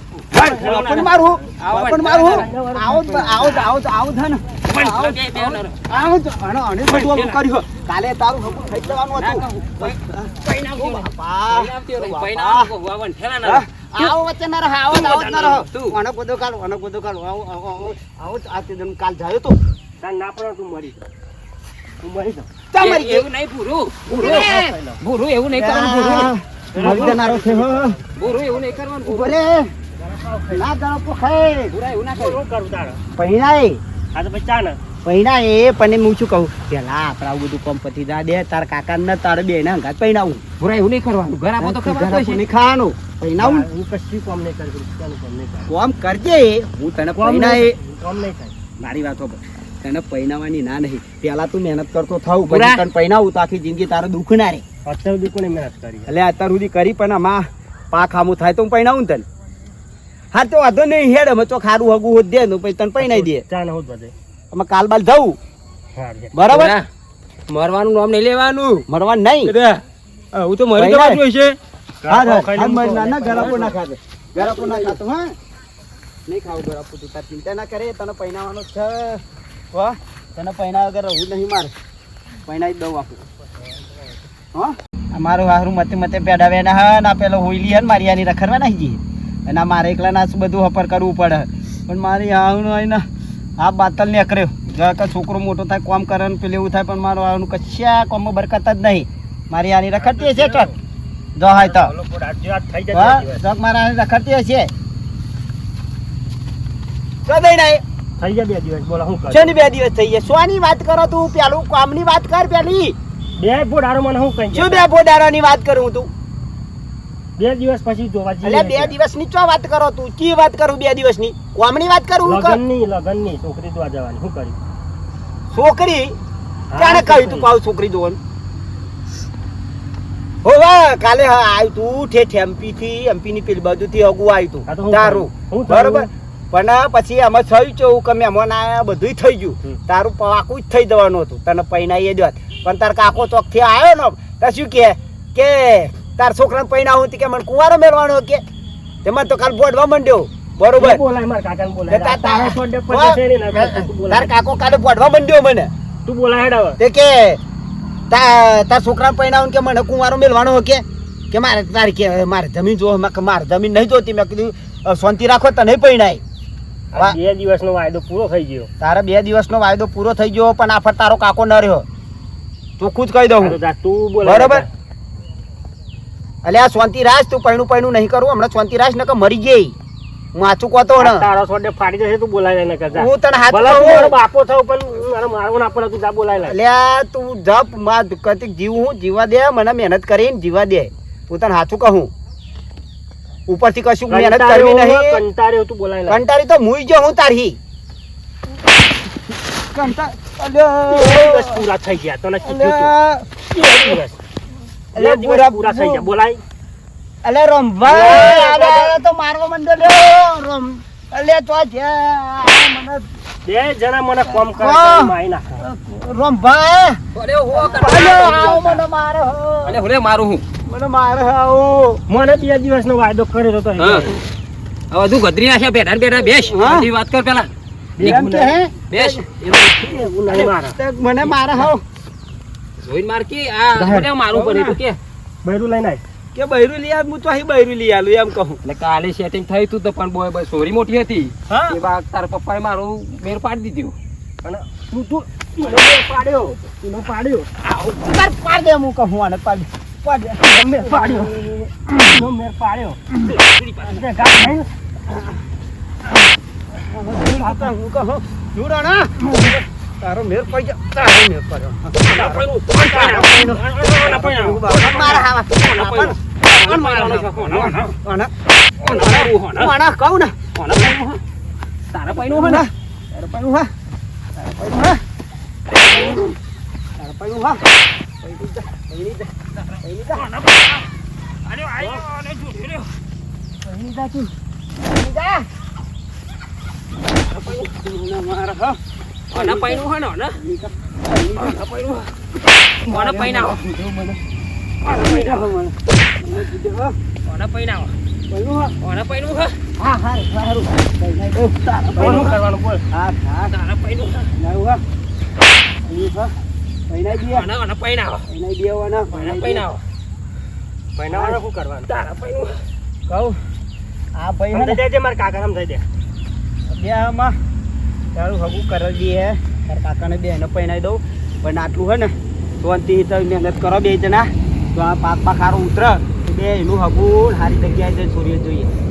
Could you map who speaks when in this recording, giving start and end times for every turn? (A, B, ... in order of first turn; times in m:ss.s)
0:00.3-0:01.4 A
0:00.3-0:02.5 B
0:00.5-0:12.7 C
0:02.0-0:03.7 A
0:04.7-0:05.8 B
0:06.9-0:07.4 B
0:09.1-0:14.2 B
0:13.4-0:19.6 C
0:14.9-0:16.0 B
0:20.0-0:21.0 A
0:22.0-0:22.5 A
0:22.7-0:23.3 C
0:22.8-0:27.2 B
0:24.1-0:24.7 C
0:24.1-0:25.0 A
0:25.5-0:28.0 C
0:26.7-0:28.0 A
0:28.2-0:29.4 B
0:29.0-0:29.7 C
0:30.0-0:30.7 A
0:30.5-0:31.7 C
0:31.7-0:32.4 B
0:32.1-0:33.0 A
0:33.2-0:33.8 C
0:34.1-0:34.8 A
0:35.0-0:40.4 C
0:40.6-0:42.4 B
0:41.6-0:43.6 C
0:43.4-0:45.7 A
0:45.7-0:47.7 C
0:47.1-0:48.5 A
0:48.8-0:54.6 C
0:52.4-0:52.8 B
0:54.8-0:56.1 A
0:56.1-0:59.2 C
1:00.3-1:03.4 C
1:03.0-1:04.1 A
1:04.5-1:05.4 C
1:05.9-1:06.3 A
1:06.3-1:06.8 C
1:06.5-1:06.9 B
1:07.5-1:08.9 B
1:08.9-1:09.5 C
1:09.4-1:09.8 B
1:10.3-1:11.6 B
1:10.8-1:11.2 C
1:12.0-1:13.8 A
1:12.1-1:15.3 C
1:14.4-1:14.9 A
1:16.3-1:21.7 C
1:22.4-1:23.2 C
1:23.6-1:23.9 A
1:24.5-1:33.0 C
1:33.6-1:40.7 C
1:40.0-1:40.8 A
1:41.4-1:41.9 C
1:41.5-1:43.4 A
1:42.9-1:44.7 C
1:47.2-1:47.8 C
1:48.2-1:49.5 A
1:49.3-1:53.0 C
1:53.4-1:54.9 A
1:54.5-1:56.1 C
1:57.4-1:58.9 A
1:58.4-2:02.6 C
2:02.2-2:04.6 A
2:05.5-2:06.2 C
2:06.7-2:07.5 A
2:06.8-2:08.2 C
2:10.4-2:28.4 C
2:14.7-2:16.1 A
2:29.0-2:31.0 C
2:30.8-2:34.3 A
2:31.9-2:35.7 C
2:36.0-2:36.8 A
2:36.8-2:37.4 C
2:38.1-2:46.2 C
2:46.9-2:48.7 A
2:48.8-2:51.8 C
2:52.8-2:53.6 C
2:53.4-2:54.7 A
2:54.2-2:54.6 C
2:56.4-2:59.7 C
3:00.3-3:01.3 C
3:01.0-3:06.6 A
3:02.9-3:04.2 C
3:06.4-3:12.1 C
3:13.5-3:15.2 C
3:14.1-3:16.2 A
3:16.1-3:17.6 C
3:19.7-3:21.6 C
3:20.9-3:22.9 A
3:22.4-3:24.0 C
3:23.5-3:24.2 A
3:24.9-3:26.1 C
3:25.0-3:26.4 A
3:27.2-3:33.0 C
3:27.8-3:28.9 A
3:33.4-3:35.6 A
3:34.3-3:37.0 C
3:37.1-3:38.8 B
3:37.5-3:39.8 C
3:39.6-3:40.4 B
3:40.6-3:42.0 C
3:42.1-3:44.2 A
3:43.8-3:44.2 B
3:44.9-3:47.5 B
3:46.2-3:46.9 C
3:48.0-3:48.6 A
3:48.0-3:51.8 C
3:48.9-3:49.2 B
3:49.6-3:50.8 A
3:52.8-3:55.0 B
3:53.7-3:54.1 A
3:54.3-3:54.8 C
3:55.4-3:56.0 A
3:56.3-3:58.6 C
3:58.6-4:03.9 B
4:04.4-4:07.5 A
4:07.7-4:12.2 C
4:10.5-4:11.5 A
4:12.0-4:13.0 A
4:13.2-4:14.0 B
4:13.9-4:14.7 A
4:16.8-4:28.3 C
4:17.1-4:17.7 A
4:22.0-4:23.5 B
4:22.9-4:24.9 A
4:24.1-4:27.8 B
4:26.8-4:27.8 A
4:28.8-4:29.7 B
4:28.9-4:30.4 C
4:30.6-4:31.2 B
4:31.9-4:32.7 B
4:32.1-4:33.7 C
4:34.4-4:35.0 C
4:35.8-4:36.3 C
4:37.0-4:37.6 C
4:38.2-4:39.3 C
4:39.6-4:40.9 B
4:39.8-4:40.3 C
4:41.4-4:42.9 B
4:43.6-4:45.4 C
4:47.3-4:47.7 B
4:47.4-4:48.8 C
4:49.3-4:49.8 C
4:49.3-4:50.4 B
4:50.4-4:51.6 C
4:51.4-4:52.1 B
4:52.8-4:53.6 B
4:52.9-4:54.2 C
4:54.8-4:55.5 B
4:54.8-4:57.0 C
4:57.2-4:57.9 B
4:58.3-4:58.8 C
4:58.8-4:59.5 B
4:59.8-5:02.4 C
5:02.0-5:02.8 A
5:02.9-5:03.5 C
5:03.5-5:04.3 B
5:04.4-5:04.8 C
5:05.8-5:06.3 C
5:06.9-5:07.5 C
5:07.2-5:08.2 B
5:08.3-5:09.6 C
5:09.1-5:09.8 B
5:11.0-5:11.9 A
5:11.1-5:11.4 C
5:11.9-5:12.6 B
5:13.1-5:13.4 C
5:14.1-5:14.8 C
5:14.5-5:15.8 A
5:16.7-5:17.3 C
5:18.1-5:28.7 C